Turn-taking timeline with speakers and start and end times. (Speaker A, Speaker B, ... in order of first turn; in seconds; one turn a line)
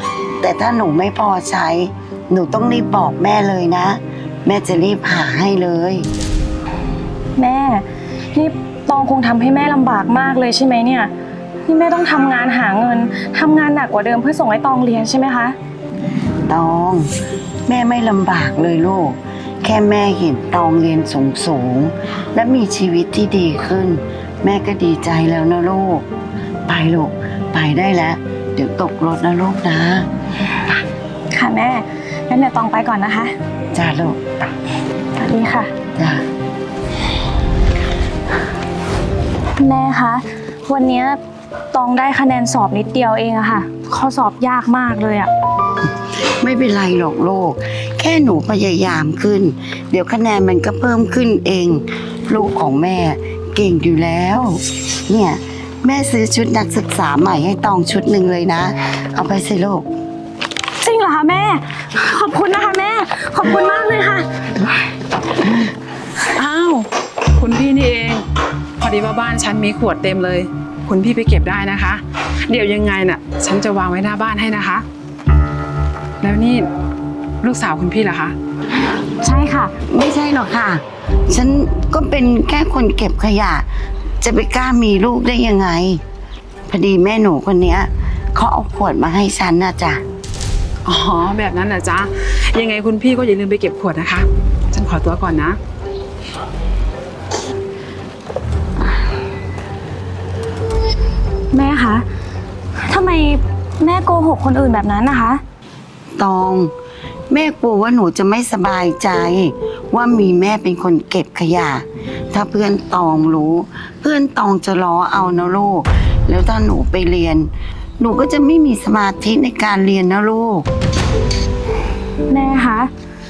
Speaker A: 0.4-6.0
Speaker B: 7.4-11.1
Speaker B: 11.7-15.5
Speaker A: 16.5-17.1
Speaker A: 17.7-26.0
Speaker A: 26.7-30.1
Speaker B: 31.3-33.3
Speaker A: 33.7-34.4
Speaker B: 35.1-35.7
Speaker A: 36.0-36.2
Speaker B: 39.6-41.2
Speaker B: 41.7-45.3
Speaker A: 46.4-59.9
Speaker B: 60.8-64.2
Speaker C: 66.3-68.2
Speaker C: 68.8-74.8
Speaker C: 76.2-76.7
Speaker C: 77.4-78.3
Speaker B: 79.2-79.7
Speaker A: 79.9-83.7
Speaker A: 84.2-86.0
Speaker A: 86.7-90.0
Speaker C: 90.8-95.6
Speaker B: 101.5-102.0
Speaker B: 102.8-105.4
Speaker A: 106.2-106.7
Speaker A: 107.3-120.7
Speaker B: 122.3-122.9